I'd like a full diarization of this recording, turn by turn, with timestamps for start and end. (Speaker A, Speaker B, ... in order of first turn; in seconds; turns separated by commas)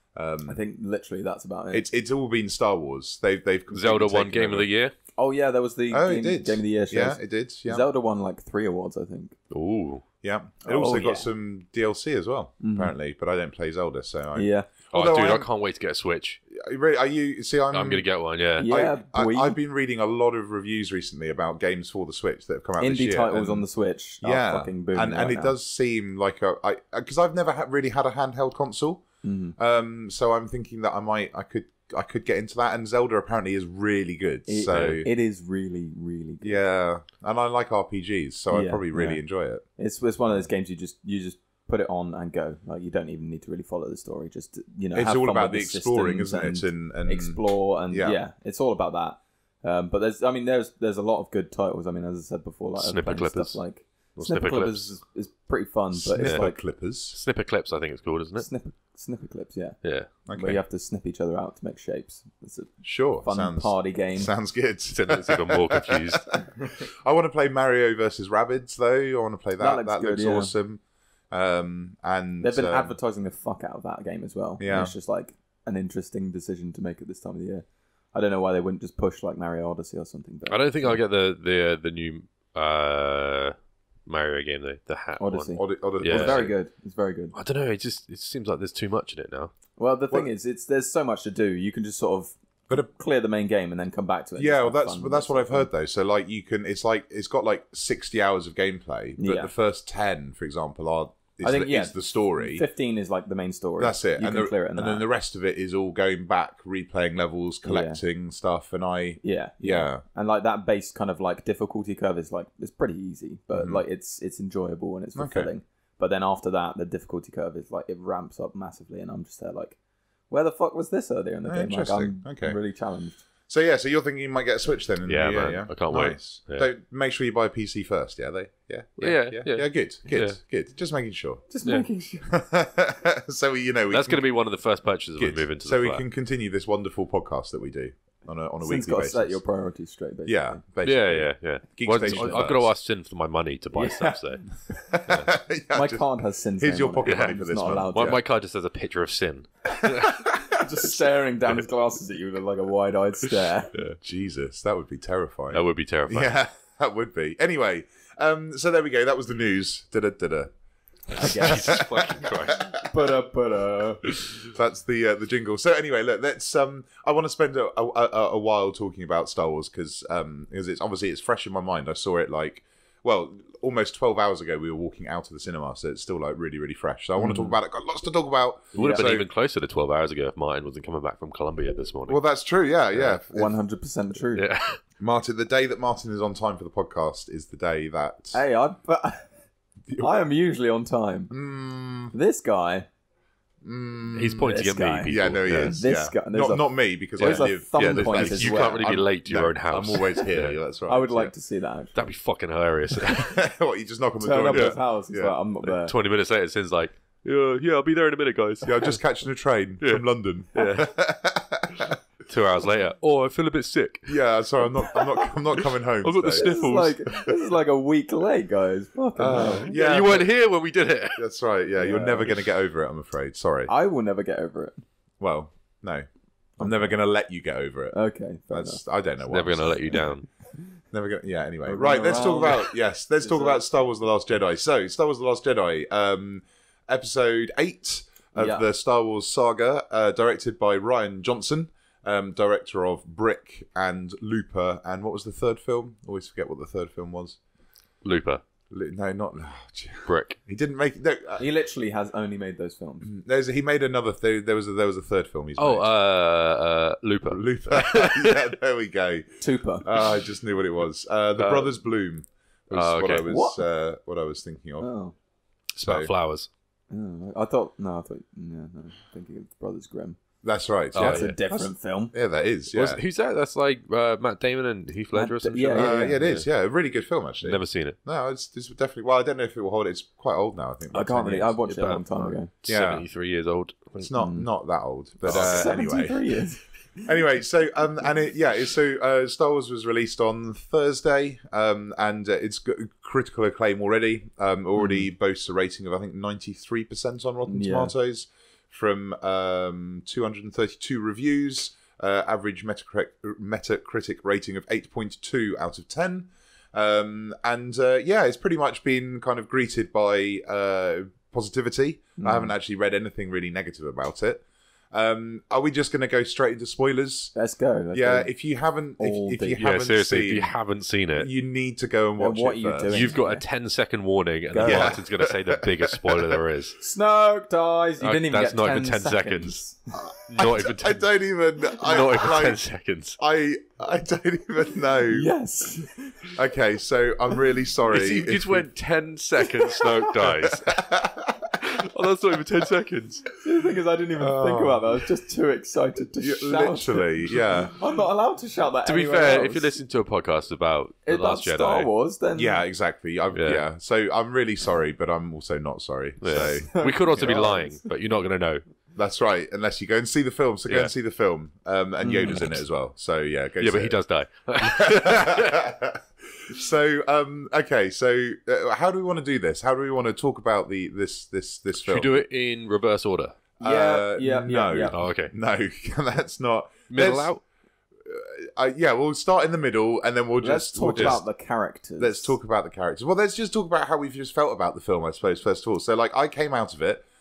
Speaker A: 0.1-0.6, Speaker B: 0.5-1.8, Speaker A: 1.7-4.7, Speaker C: 3.7-4.9, Speaker B: 5.2-9.3, Speaker A: 5.9-7.8, Speaker C: 9.5-10.0, Speaker A: 10.2-15.5, Speaker B: 10.6-11.3, Speaker B: 12.6-12.9, Speaker B: 14.3-14.7, Speaker C: 14.9-16.4, Speaker A: 16.5-18.0, Speaker C: 17.7-18.7, Speaker A: 18.6-23.7, Speaker B: 18.6-19.6, Speaker B: 22.8-25.5, Speaker A: 24.2-29.0, Speaker B: 29.2-29.5, Speaker A: 29.6-35.1, Speaker B: 34.5-36.6, Speaker C: 34.7-35.0, Speaker A: 36.4-39.6, Speaker B: 38.5-39.2, Speaker B: 39.8-56.5, Speaker A: 44.9-48.2, Speaker C: 52.8-53.6, Speaker C: 54.1-54.9, Speaker A: 55.9-57.2, Speaker C: 56.2-56.5, Speaker C: 57.1-58.5, Speaker B: 58.4-59.8, Speaker C: 59.8-60.1, Speaker A: 60.3-60.6, Speaker B: 60.3-62.7, Speaker A: 62.8-73.0, Speaker B: 63.2-64.3, Speaker C: 64.9-66.3, Speaker B: 69.6-70.5, Speaker B: 72.4-81.0, Speaker A: 74.6-74.9, Speaker C: 80.5-86.5, Speaker B: 85.2-87.3, Speaker A: 85.5-86.5, Speaker C: 87.3-89.5, Speaker B: 89.8-95.7, Speaker A: 94.4-102.6, Speaker B: 99.2-99.5, Speaker B: 101.4-105.0, Speaker A: 103.8-110.0, Speaker B: 107.6-108.0, Speaker B: 109.2-119.8, Speaker A: 113.5-113.8, Speaker A: 115.2-115.5, Speaker B: 120.3-123.2, Speaker A: 121.4-122.6, Speaker A: 123.5-131.5, Speaker C: 125.0-126.7, Speaker C: 129.0-130.4, Speaker B: 131.5-132.3, Speaker A: 132.3-134.2, Speaker C: 133.9-136.0, Speaker A: 135.2-139.4, Speaker B: 138.6-140.6, Speaker A: 140.2-142.7, Speaker C: 140.8-144.5, Speaker B: 142.0-142.3, Speaker B: 143.7-144.2, Speaker A: 144.9-148.2, Speaker B: 145.7-148.2, Speaker C: 147.0-147.4, Speaker C: 147.9-150.1, Speaker A: 149.8-150.6, Speaker B: 150.5-153.7, Speaker A: 154.0-160.5, Speaker C: 155.5-156.3, Speaker B: 161.1-161.9, Speaker A: 161.1-162.9, Speaker C: 161.2-162.8, Speaker B: 162.8-164.0, Speaker A: 164.4-179.3, Speaker B: 177.2-177.6, Speaker B: 178.7-179.1, Speaker C: 178.8-182.2, Speaker A: 182.1-183.6, Speaker C: 182.9-183.2, Speaker B: 183.3-184.4, Speaker C: 184.3-184.8, Speaker A: 185.0-188.4, Speaker B: 188.3-189.3, Speaker B: 190.0-191.3, Speaker A: 191.3-192.1, Speaker B: 192.1-192.9, Speaker A: 193.6-201.3, Speaker C: 194.1-195.8, Speaker B: 194.4-198.9, Speaker C: 197.2-200.6, Speaker B: 200.9-202.0, Speaker C: 201.9-203.4, Speaker A: 203.1-205.3, Speaker B: 204.2-205.9, Speaker C: 205.7-208.9, Speaker A: 208.6-212.0, Speaker C: 209.8-210.9, Speaker C: 212.3-214.1, Speaker A: 214.1-216.5, Speaker C: 215.5-217.1, Speaker B: 216.3-219.7, Speaker A: 219.2-220.3, Speaker C: 219.3-221.2, Speaker A: 221.1-223.7, Speaker B: 221.8-222.4, Speaker B: 223.7-224.8, Speaker A: 225.2-226.1, Speaker A: 226.6-228.0, Speaker B: 226.6-226.9, Speaker B: 227.9-228.8, Speaker A: 228.5-230.1, Speaker C: 229.3-230.3, Speaker A: 230.9-247.4, Speaker B: 231.7-233.6, Speaker B: 238.3-238.6, Speaker C: 248.0-248.4, Speaker A: 248.7-251.4, Speaker C: 250.1-250.3, Speaker B: 251.4-253.1, Speaker A: 253.0-255.9, Speaker C: 255.6-258.5, Speaker A: 257.2-264.9, Speaker B: 259.4-259.9, Speaker C: 261.4-261.7, Speaker C: 262.7-263.3, Speaker B: 263.2-263.6, Speaker B: 264.8-265.1, Speaker C: 265.7-266.5, Speaker A: 265.8-266.1, Speaker B: 266.9-270.2, Speaker A: 270.4-273.0, Speaker C: 270.9-271.4, Speaker B: 270.9-272.1, Speaker C: 272.7-276.5, Speaker B: 275.1-276.2, Speaker A: 275.7-281.6, Speaker C: 277.4-277.9, Speaker B: 280.9-282.5, Speaker C: 281.7-284.1, Speaker A: 282.6-283.1, Speaker A: 284.0-286.2, Speaker B: 284.1-284.5, Speaker C: 285.2-285.8, Speaker B: 285.2-287.0, Speaker A: 287.0-317.3, Speaker B: 294.8-295.0, Speaker B: 297.4-297.9, Speaker B: 312.2-312.5, Speaker B: 317.3-318.3, Speaker A: 317.9-320.5, Speaker B: 319.0-319.6, Speaker C: 319.6-321.3, Speaker A: 321.2-323.1, Speaker B: 322.2-323.4, Speaker C: 322.9-326.8, Speaker B: 324.5-325.0, Speaker A: 324.6-326.4, Speaker B: 326.8-329.8, Speaker C: 328.0-329.6, Speaker A: 329.9-332.6, Speaker C: 330.3-331.0, Speaker C: 331.8-333.2, Speaker A: 333.2-335.3, Speaker B: 335.1-336.3, Speaker A: 336.3-338.7, Speaker C: 337.9-340.9, Speaker A: 340.3-341.5, Speaker C: 341.6-343.3, Speaker B: 343.4-349.7, Speaker A: 344.2-344.8, Speaker A: 346.2-347.7, Speaker C: 348.8-351.9, Speaker B: 351.1-352.6, Speaker A: 352.3-357.6, Speaker C: 353.3-353.6, Speaker C: 356.2-358.6, Speaker B: 356.3-357.8, Speaker A: 358.9-364.0, Speaker C: 360.7-360.9, Speaker B: 362.0-362.5, Speaker C: 363.6-365.7, Speaker A: 364.6-372.2, Speaker C: 371.8-373.4, Speaker A: 373.6-377.3, Speaker B: 373.6-374.9, Speaker C: 374.9-375.3, Speaker C: 376.9-377.4, Speaker A: 378.0-381.2, Speaker B: 380.4-382.3, Speaker A: 382.0-387.0